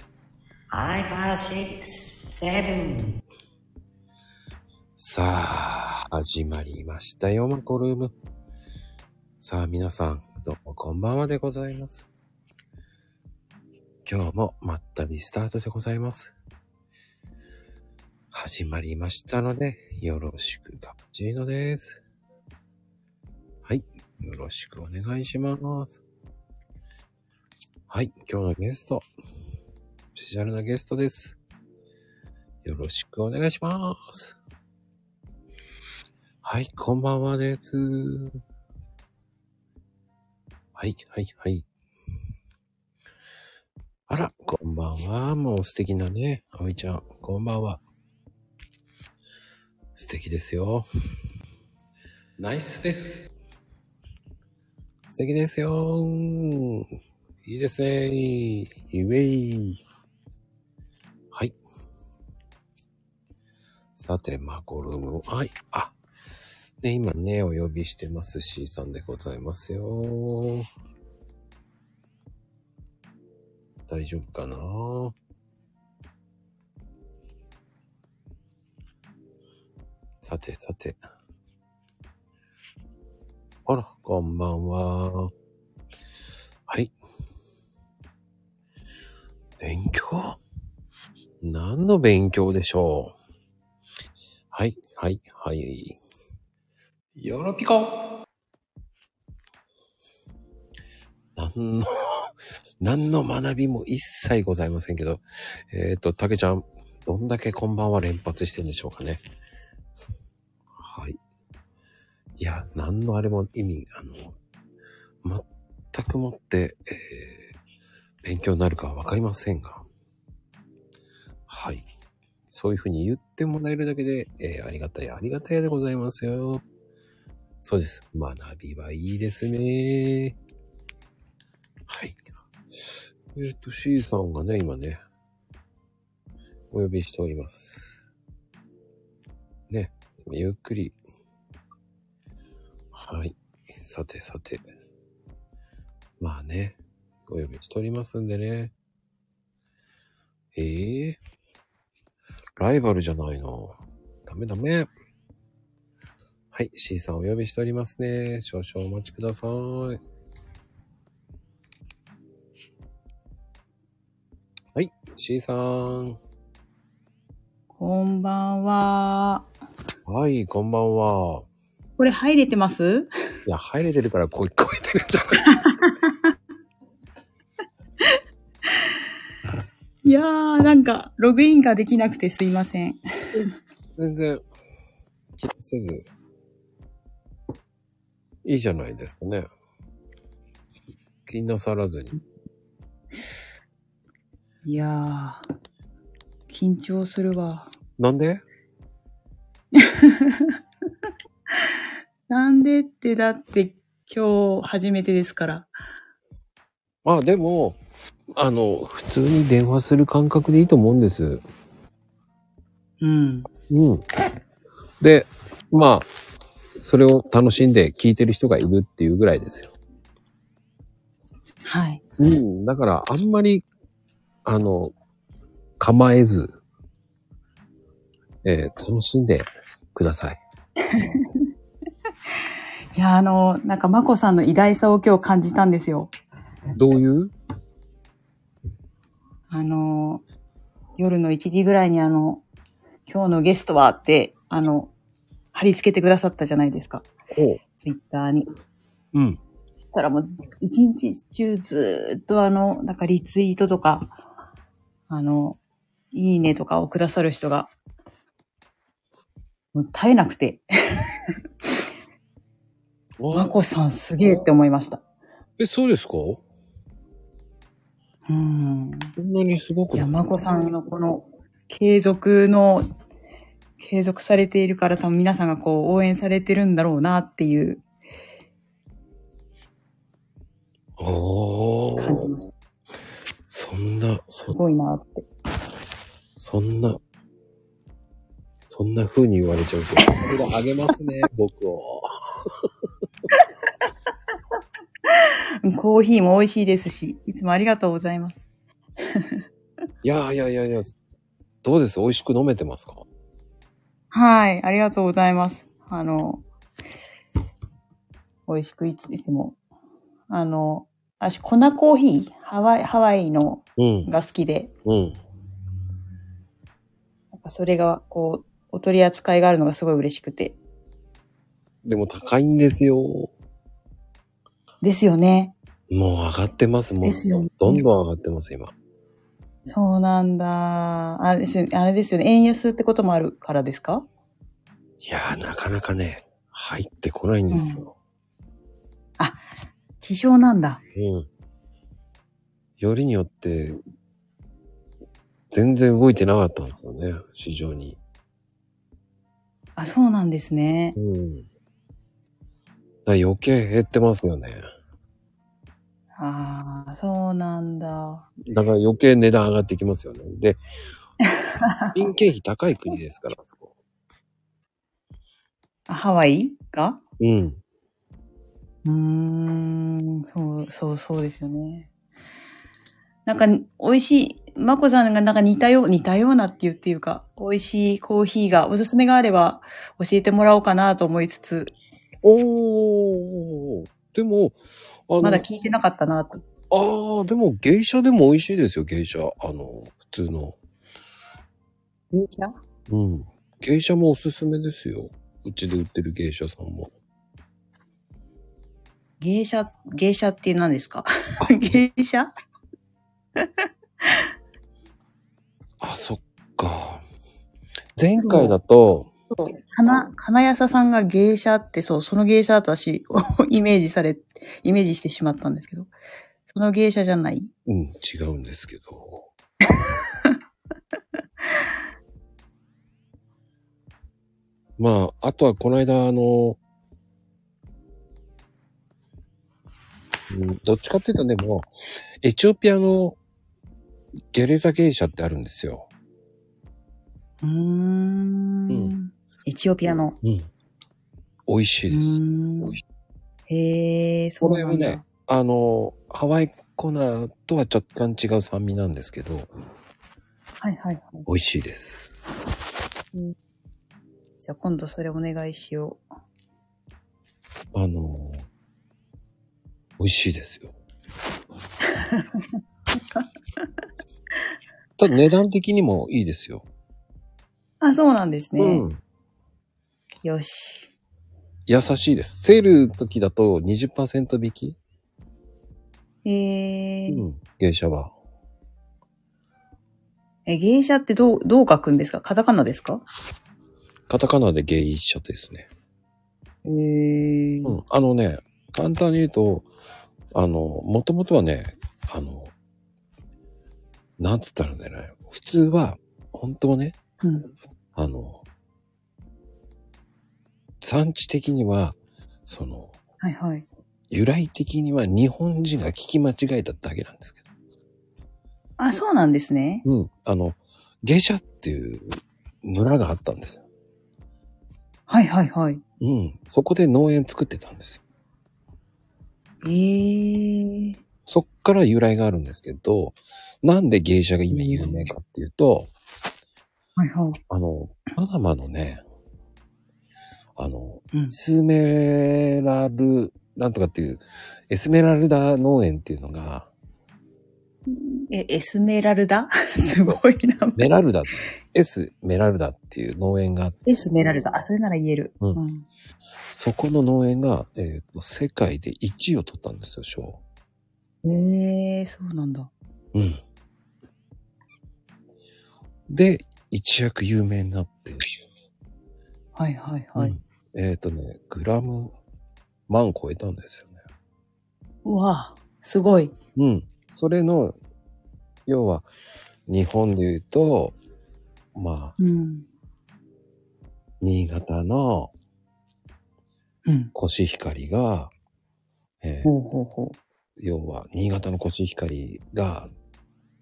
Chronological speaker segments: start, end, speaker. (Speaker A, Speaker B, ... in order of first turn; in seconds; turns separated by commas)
Speaker A: 0.7-3.2, Speaker B: 5.0-8.1, Speaker B: 9.4-12.1, Speaker B: 14.1-16.3, Speaker B: 18.3-22.0, Speaker B: 23.6-26.0, Speaker B: 27.9-29.0, Speaker B: 30.2-31.4, Speaker B: 32.6-34.4, Speaker B: 36.4-38.3, Speaker B: 40.8-41.6, Speaker B: 44.1-47.8, Speaker B: 50.0-50.9, Speaker B: 52.4-53.3, Speaker B: 55.1-56.9, Speaker B: 57.4-59.8, Speaker B: 64.0-65.9, Speaker B: 66.8-70.6, Speaker B: 73.9-75.1, Speaker B: 80.2-81.0, Speaker B: 83.7-85.3, Speaker B: 86.7-86.9, Speaker B: 89.6-90.4, Speaker B: 91.4-93.2, Speaker B: 94.5-96.0, Speaker B: 97.2-97.9, Speaker B: 101.3-102.3, Speaker B: 102.8-109.2, Speaker B: 110.8-111.2, Speaker B: 112.4-114.3, Speaker B: 115.2-117.5, Speaker B: 118.2-119.8, Speaker B: 121.5-121.8, Speaker B: 122.5-126.6, Speaker B: 127.6-130.3, Speaker B: 131.9-132.2, Speaker B: 132.8-135.0, Speaker B: 136.7-138.0, Speaker B: 139.7-140.9, Speaker B: 142.9-144.6, Speaker B: 146.2-148.7, Speaker B: 150.5-151.2, Speaker B: 152.6-153.8, Speaker B: 154.2-154.9, Speaker B: 156.5-160.0, Speaker B: 164.8-166.2, Speaker C: 167.7-169.5, Speaker B: 170.0-171.5, Speaker C: 172.0-173.1, Speaker B: 173.4-175.4, Speaker C: 175.5-176.2, Speaker C: 180.0-183.0, Speaker B: 183.9-184.4, Speaker B: 185.4-186.0, Speaker B: 188.4-189.4, Speaker B: 191.2-192.2, Speaker C: 194.6-195.4, Speaker C: 196.5-197.7, Speaker B: 198.0-198.4, Speaker C: 199.8-200.5, Speaker C: 202.3-205.7, Speaker B: 207.0-207.8, Speaker B: 208.3-211.4, Speaker C: 213.0-213.5, Speaker B: 213.7-214.0, Speaker B: 215.0-216.1, Speaker B: 216.8-219.7, Speaker C: 221.7-222.0, Speaker B: 222.2-223.6, Speaker B: 224.4-224.9, Speaker B: 225.8-226.6, Speaker B: 228.4-230.4, Speaker C: 230.9-231.3, Speaker C: 232.9-236.1, Speaker B: 236.7-237.3, Speaker C: 239.5-240.2, Speaker C: 241.0-242.4, Speaker C: 243.1-244.9, Speaker C: 245.5-247.1, Speaker B: 247.3-247.6, Speaker C: 247.8-248.5, Speaker B: 249.1-249.4, Speaker C: 249.8-254.2, Speaker C: 255.1-255.6, Speaker C: 256.1-257.7, Speaker C: 259.7-260.6, Speaker B: 263.2-263.6, Speaker C: 263.3-265.0, Speaker B: 265.6-266.4, Speaker C: 268.3-269.1, Speaker B: 269.1-270.1, Speaker C: 269.9-272.9, Speaker C: 273.8-277.8, Speaker B: 281.0-282.3, Speaker C: 281.9-282.5, Speaker B: 283.5-284.6, Speaker C: 284.4-285.3, Speaker B: 286.4-287.0, Speaker B: 288.7-292.1, Speaker C: 295.1-298.4, Speaker C: 299.1-299.4, Speaker B: 300.0-300.9, Speaker B: 301.6-303.0, Speaker C: 304.1-306.4, Speaker C: 308.5-309.6, Speaker C: 310.3-314.7, Speaker B: 313.8-314.1, Speaker B: 314.8-315.2, Speaker C: 317.3-320.6, Speaker B: 321.8-323.3, Speaker C: 324.8-325.6, Speaker B: 325.9-328.7, Speaker C: 327.0-327.9, Speaker C: 329.7-334.1, Speaker B: 335.0-337.9, Speaker C: 337.5-337.9, Speaker C: 340.0-340.8, Speaker B: 340.9-341.3, Speaker B: 342.8-343.8, Speaker B: 345.5-348.0, Speaker C: 349.8-350.9, Speaker B: 350.9-351.5, Speaker B: 353.1-354.6, Speaker C: 356.2-358.3, Speaker B: 358.4-360.6, Speaker C: 361.3-361.9, Speaker B: 361.9-363.7, Speaker C: 365.9-367.0, Speaker B: 367.2-367.6, Speaker C: 368.8-371.9, Speaker C: 373.2-381.7, Speaker B: 382.2-384.6, Speaker B: 385.1-385.4, Speaker C: 385.2-386.4, Speaker B: 386.7-390.6, Speaker C: 392.1-392.6, Speaker B: 392.9-396.9, Speaker C: 399.2-402.3, Speaker B: 401.4-401.8, Speaker B: 405.8-407.0, Speaker B: 408.0-409.1, Speaker C: 408.2-408.6, Speaker C: 409.3-415.9, Speaker C: 416.5-417.5, Speaker B: 417.6-419.3, Speaker C: 419.8-420.3, Speaker B: 424.8-426.6, Speaker B: 430.3-431.7, Speaker B: 432.2-433.2, Speaker B: 434.3-435.9, Speaker C: 437.4-440.2, Speaker B: 438.7-438.9, Speaker B: 440.2-440.5, Speaker B: 441.5-442.8, Speaker C: 441.9-442.8, Speaker C: 443.5-445.0, Speaker B: 444.4-449.5, Speaker C: 450.6-451.3, Speaker B: 451.3-452.1, Speaker C: 454.4-456.0, Speaker B: 457.7-458.4, Speaker B: 460.0-460.7, Speaker C: 461.9-462.4, Speaker B: 465.0-466.6, Speaker C: 467.8-468.9, Speaker B: 468.6-469.0, Speaker C: 470.2-470.9, Speaker B: 471.7-474.8, Speaker C: 476.2-477.2, Speaker B: 477.1-478.1, Speaker C: 480.4-483.1, Speaker B: 484.1-485.7, Speaker C: 486.6-487.8, Speaker B: 487.6-489.7, Speaker B: 490.3-492.5, Speaker B: 494.2-497.0, Speaker C: 497.2-497.5, Speaker B: 497.9-498.4, Speaker B: 500.8-502.9, Speaker C: 503.2-503.7, Speaker B: 504.1-507.4, Speaker C: 508.8-509.8, Speaker B: 509.8-513.6, Speaker C: 515.1-515.8, Speaker B: 516.0-518.0, Speaker C: 519.6-521.0, Speaker B: 521.3-525.9, Speaker C: 524.5-525.1, Speaker C: 527.0-527.4, Speaker B: 527.5-529.0, Speaker B: 530.6-536.7, Speaker C: 537.9-540.9, Speaker B: 540.8-543.8, Speaker C: 543.9-545.9, Speaker B: 546.5-550.4, Speaker C: 551.2-552.7, Speaker B: 553.1-553.4, Speaker B: 556.1-558.2, Speaker C: 559.6-560.4, Speaker B: 560.2-562.1, Speaker B: 562.9-564.0, Speaker C: 565.0-566.3, Speaker B: 566.6-567.8, Speaker B: 568.7-569.1, Speaker B: 569.7-571.0, Speaker B: 571.8-572.2, Speaker C: 572.2-572.7, Speaker B: 574.2-575.3, Speaker C: 576.9-577.1, Speaker B: 577.1-578.3, Speaker B: 579.2-579.5, Speaker C: 579.4-580.2, Speaker B: 580.6-582.9